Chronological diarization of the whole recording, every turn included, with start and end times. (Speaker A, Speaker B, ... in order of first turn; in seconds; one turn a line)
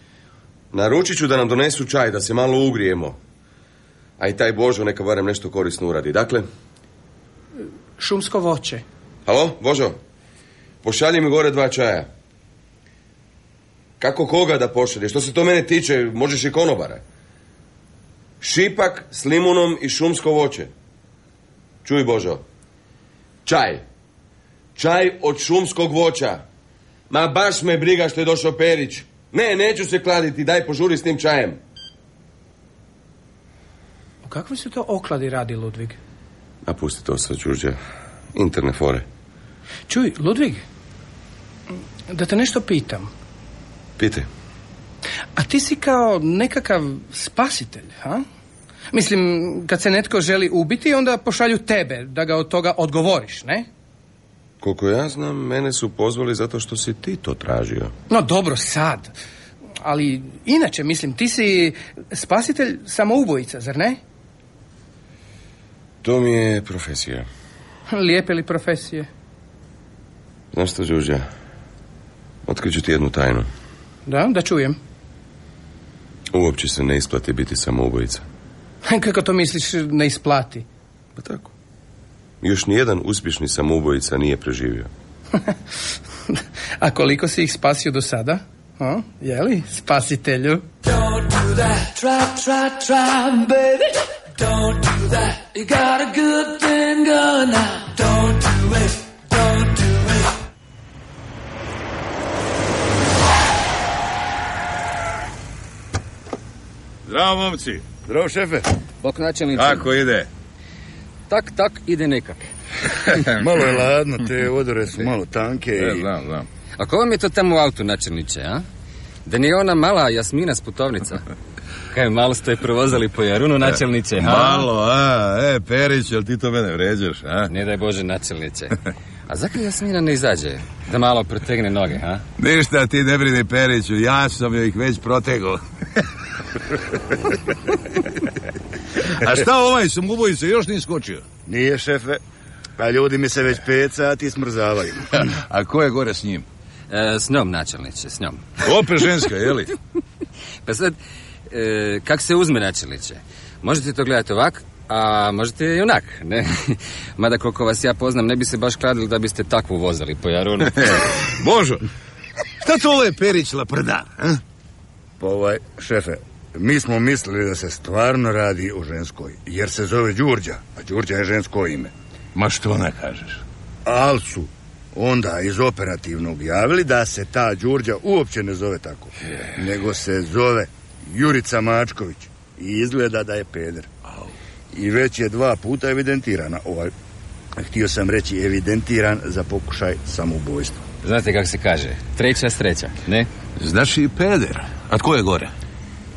Speaker A: 0.7-3.2
Speaker A: 4.2-6.4
Speaker B: 8.0-8.8
Speaker A: 9.2-10.0
Speaker A: 10.8-12.1
Speaker A: 14.0-17.0
Speaker A: 18.4-20.7
Speaker A: 21.8-22.4
Speaker A: 23.4-23.8
Speaker A: 24.8-26.4
Speaker A: 27.1-31.6
Speaker B: 34.2-36.0
Speaker A: 36.6-37.8
Speaker A: 38.3-39.0
Speaker B: 39.9-40.6
Speaker B: 42.1-43.1
Speaker A: 44.0-44.3
Speaker B: 45.4-48.2
Speaker B: 48.9-53.7
Speaker A: 54.6-57.9
Speaker B: 58.1-59.1
Speaker B: 59.8-64.0
Speaker A: 66.0-67.3
Speaker B: 67.9-69.1
Speaker A: 70.5-71.3
Speaker A: 72.5-73.5
Speaker B: 74.0-74.8
Speaker A: 76.3-78.2
Speaker B: 78.8-80.7
Speaker A: 81.2-81.5
Speaker A: 82.4-84.9
Speaker B: 86.3-90.7
Speaker C: 90.8-100.3
Speaker D: 107.0-107.8
Speaker E: 108.0-108.7
Speaker F: 109.0-109.9
Speaker D: 109.5-110.3
Speaker F: 111.3-112.5
Speaker E: 113.3-116.0
Speaker D: 115.8-116.5
Speaker F: 116.8-118.6
Speaker F: 119.2-121.2
Speaker F: 121.9-124.7
Speaker D: 123.6-127.5
Speaker F: 127.5-128.8
Speaker F: 129.3-132.2
Speaker D: 132.4-136.1
Speaker D: 139.0-141.2
Speaker E: 141.4-142.2
Speaker E: 142.8-145.2
Speaker D: 145.2-146.4
Speaker F: 146.9-148.6
Speaker D: 148.6-149.7
Speaker F: 150.6-150.9
Speaker F: 151.5-160.8
Speaker D: 160.7-161.8
Speaker D: 162.6-164.4
Speaker E: 165.2-171.9
Speaker D: 172.3-173.4
Speaker E: 173.8-183.9
Speaker E: 184.7-186.9
Speaker E: 187.6-190.8
Speaker F: 191.0-193.3
Speaker D: 193.6-195.5